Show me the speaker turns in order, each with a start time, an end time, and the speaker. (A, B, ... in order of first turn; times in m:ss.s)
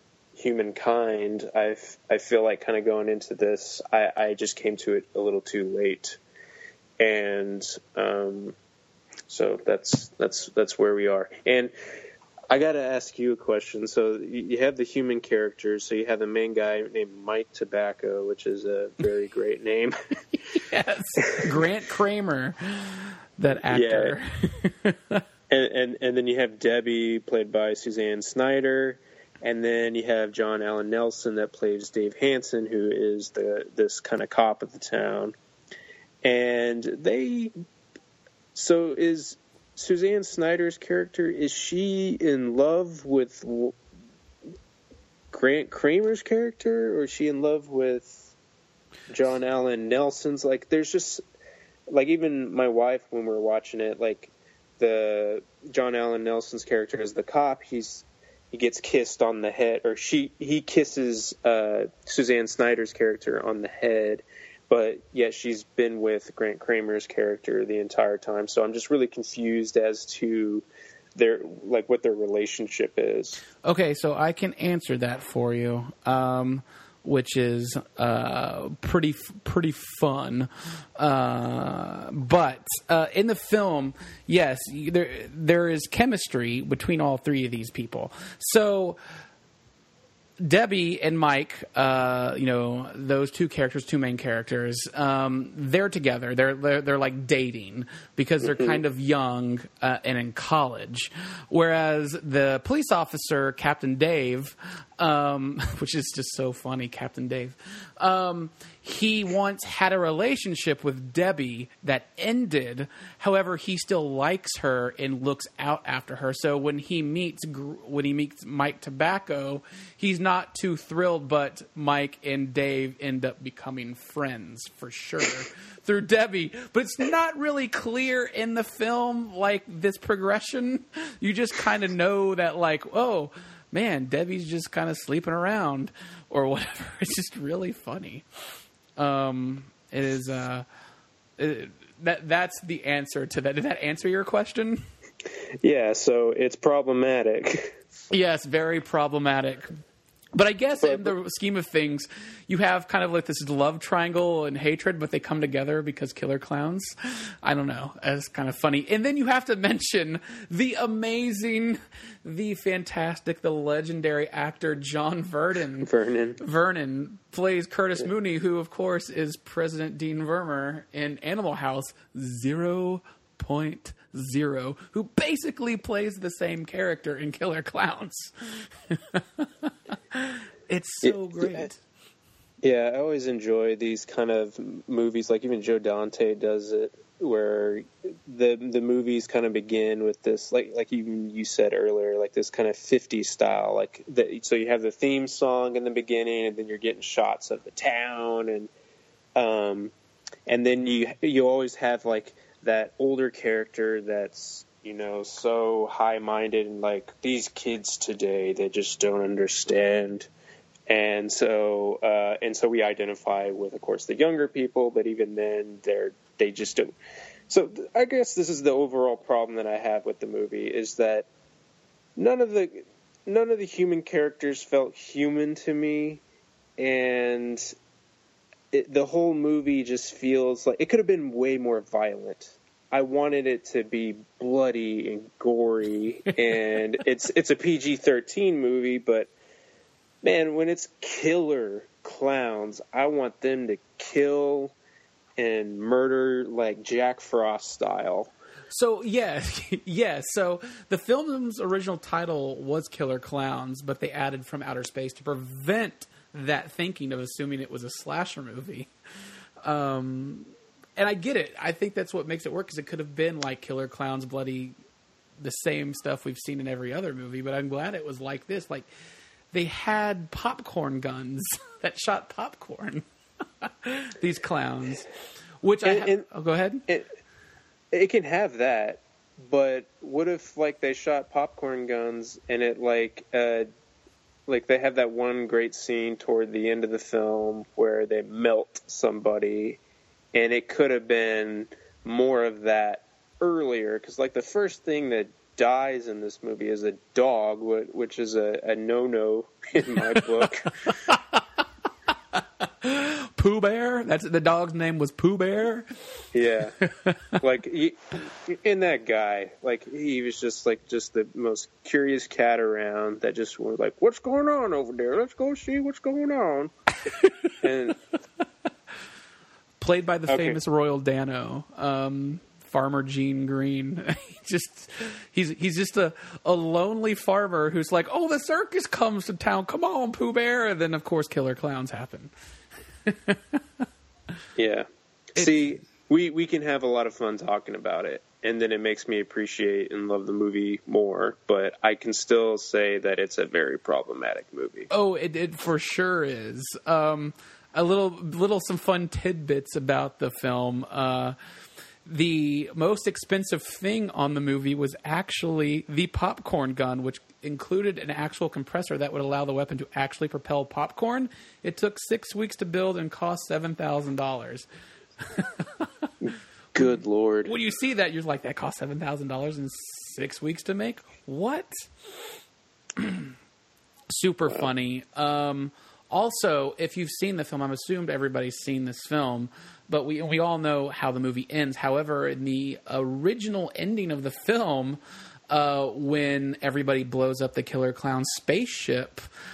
0:00.4-0:06.2 A
0:07.0-0:08.6 A
0:09.3-0:11.7 A
0:12.5-0:20.0 A
0:20.5-0:25.2 B
0:23.6-0:24.2 A
0:25.5-0:35.4 A
0:36.2-0:37.5 A
0:38.6-0:43.8 A
0:45.3-0:48.3 A
0:49.1-0:51.2 A
0:51.9-1:13.4 A
1:13.6-1:29.0 B
1:30.4-2:18.2 B
1:38.4-1:38.8 A
2:19.0-2:20.7 B
2:21.4-2:24.8 B
2:25.6-2:27.8 A
2:28.1-2:29.7 B
2:30.4-3:01.8 B
2:30.8-2:31.1 A
2:45.8-2:46.4 A
3:01.0-3:01.7 A
3:02.6-3:18.7 A
3:19.4-3:19.9 A
3:20.5-3:30.3 A
3:30.9-3:36.9 A
3:37.5-3:41.3 A
3:42.2-3:46.2 A
3:46.8-3:47.7 A
3:48.7-3:59.3 A
4:00.2-4:04.8 A
4:05.4-4:08.3 A
4:08.7-4:18.9 B
4:19.6-4:24.8 B
4:25.4-4:28.9 B
4:29.5-4:33.0 B
4:33.6-4:35.1 B
4:35.6-4:36.8 B
4:35.8-4:36.2 A
4:37.9-4:43.7 A
4:44.5-4:49.8 A
4:50.3-5:00.7 A
5:00.4-5:01.4 B
5:02.1-5:05.9 B
5:06.3-5:06.8 A
5:06.8-5:07.4 B
5:07.4-5:16.7 A
5:17.1-5:17.5 B
5:17.6-5:18.0 A
5:19.8-5:32.3 B
5:20.3-5:20.6 A
5:33.0-5:33.8 B
5:34.6-5:44.9 A
5:35.4-5:35.7 B
5:44.9-5:51.4 B
5:52.0-6:04.7 B
6:05.2-6:06.1 B
6:06.2-6:07.5 A
6:06.8-6:12.1 B
6:13.0-6:13.3 B
6:14.1-6:29.2 B